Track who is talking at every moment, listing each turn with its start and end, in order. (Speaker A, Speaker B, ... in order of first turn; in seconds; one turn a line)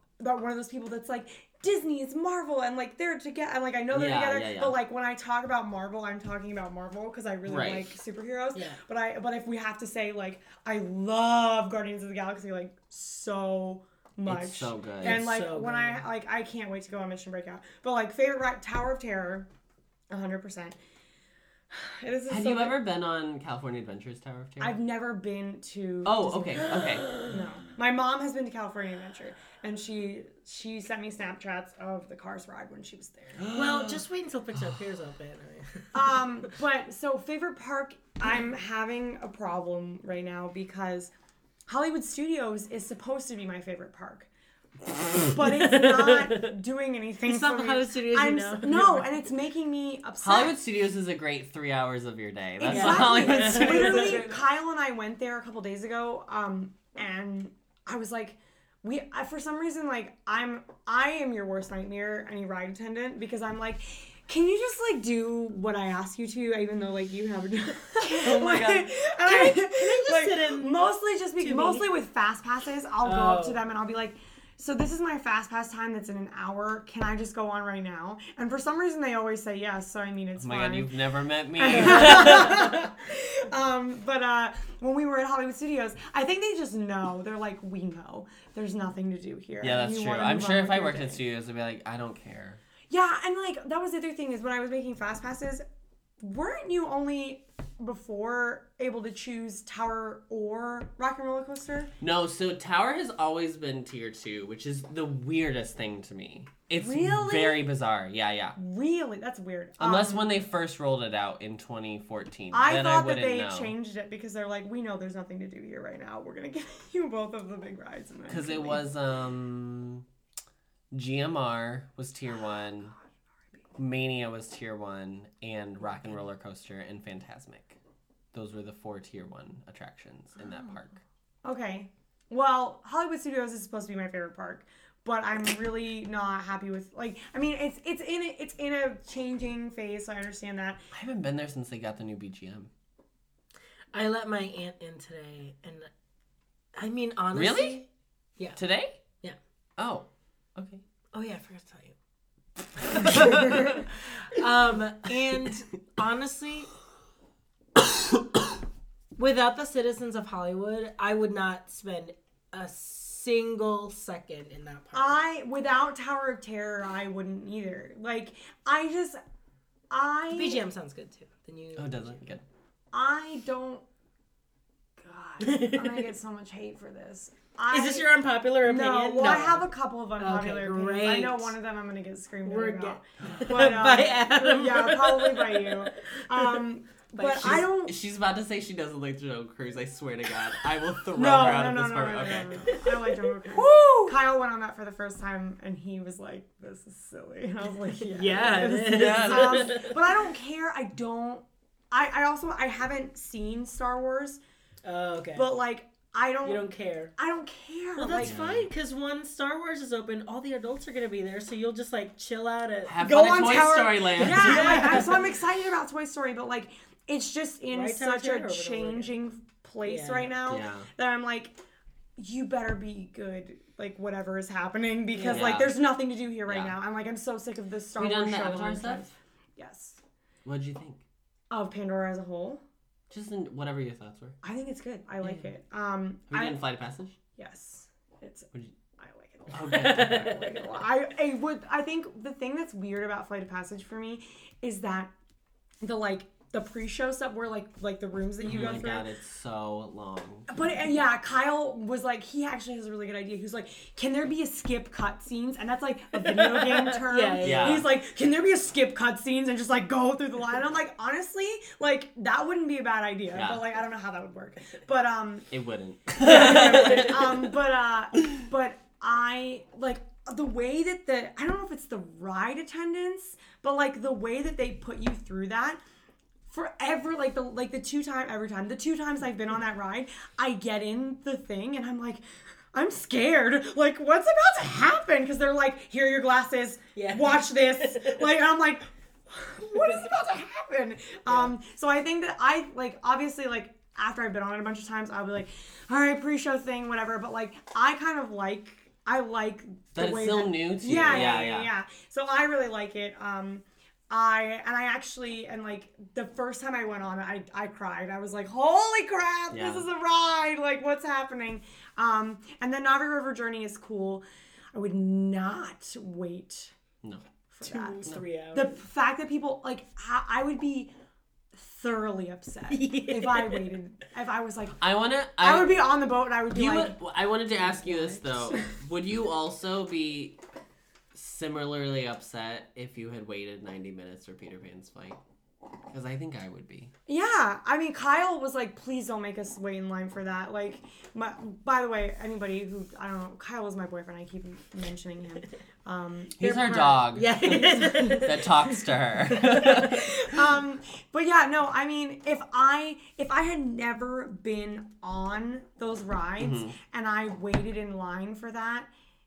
Speaker A: 0.2-19.5
Speaker B: 3.9-4.8
Speaker B: 7.5-7.9
Speaker C: 8.5-8.8
Speaker B: 14.3-15.3
Speaker C: 15.0-16.0
Speaker A: 20.1-20.8
Speaker A: 21.7-22.8
Speaker B: 22.3-24.8
Speaker A: 24.6-33.5
Speaker B: 26.1-27.1
Speaker B: 33.4-34.0
Speaker C: 33.5-36.5
Speaker A: 35.9-41.1
Speaker A: 41.7-44.3
Speaker A: 45.2-50.6
Speaker C: 45.4-46.5
Speaker C: 47.2-49.2
Speaker B: 50.2-54.3
Speaker A: 52.6-80.9
Speaker C: 52.7-54.4
Speaker C: 68.1-70.8
Speaker C: 71.4-71.9
Speaker C: 73.0-73.6
Speaker B: 80.4-82.7
Speaker A: 81.6-91.2
Speaker B: 89.6-92.6
Speaker A: 92.9-95.6
Speaker A: 96.2-101.9
Speaker B: 102.0-108.6
Speaker A: 106.8-107.7
Speaker A: 108.6-110.3
Speaker B: 109.8-113.7
Speaker A: 112.5-118.8
Speaker B: 118.3-120.0
Speaker B: 120.9-122.9
Speaker B: 123.8-127.8
Speaker B: 128.3-131.0
Speaker A: 131.4-140.9
Speaker B: 140.9-142.7
Speaker C: 143.9-145.9
Speaker C: 146.8-147.9
Speaker B: 147.3-147.8
Speaker B: 148.6-149.0
Speaker B: 149.8-150.8
Speaker C: 151.1-151.9
Speaker C: 152.8-156.7
Speaker C: 159.2-165.2
Speaker A: 164.9-169.2
Speaker A: 169.9-170.6
Speaker C: 170.3-172.2
Speaker B: 171.8-172.4
Speaker A: 172.9-173.8
Speaker A: 175.0-178.1
Speaker C: 175.4-176.1
Speaker C: 177.7-181.6
Speaker A: 178.6-188.0
Speaker C: 182.4-186.7
Speaker C: 187.2-187.7
Speaker B: 187.4-192.8
Speaker A: 191.2-204.4
Speaker C: 192.7-193.0
Speaker B: 193.6-194.1
Speaker C: 193.6-194.0
Speaker C: 198.0-200.0
Speaker B: 198.9-199.8
Speaker C: 204.8-205.5
Speaker A: 205.3-208.4
Speaker C: 206.4-207.1
Speaker C: 208.0-213.0
Speaker B: 208.2-208.7
Speaker B: 212.8-215.2
Speaker A: 213.0-221.6
Speaker C: 214.2-215.3
Speaker C: 217.7-219.1
Speaker C: 219.8-220.4
Speaker B: 220.5-220.9
Speaker A: 222.2-230.0
Speaker C: 225.1-225.5
Speaker B: 225.3-225.8
Speaker B: 226.5-226.8
Speaker B: 228.0-229.1
Speaker B: 230.4-231.0
Speaker A: 231.5-232.6
Speaker B: 233.1-234.4
Speaker A: 234.4-236.6
Speaker B: 235.2-235.5
Speaker B: 236.3-237.2
Speaker A: 237.4-245.1
Speaker B: 239.5-240.4
Speaker C: 239.8-240.5
Speaker A: 245.8-249.1
Speaker B: 248.4-250.5
Speaker A: 250.5-265.5
Speaker C: 256.2-257.9
Speaker B: 257.4-257.9
Speaker B: 263.3-263.7
Speaker B: 265.5-267.2
Speaker A: 266.2-275.8
Speaker A: 276.5-282.2
Speaker A: 282.7-316.7
Speaker C: 287.0-288.4
Speaker C: 289.8-290.1
Speaker C: 291.3-291.5
Speaker B: 299.9-301.7
Speaker C: 301.1-301.4
Speaker B: 309.5-309.9
Speaker A: 317.5-320.9
Speaker C: 317.6-318.8
Speaker A: 321.6-324.8
Speaker C: 322.7-323.7
Speaker B: 324.8-326.0
Speaker A: 325.4-327.0
Speaker B: 326.5-330.4
Speaker C: 327.6-328.2
Speaker B: 331.1-335.2
Speaker B: 335.9-336.9
Speaker A: 337.1-348.3
Speaker B: 346.4-350.4
Speaker C: 347.1-348.6
Speaker C: 349.5-349.8
Speaker A: 349.6-358.9
Speaker B: 356.4-356.8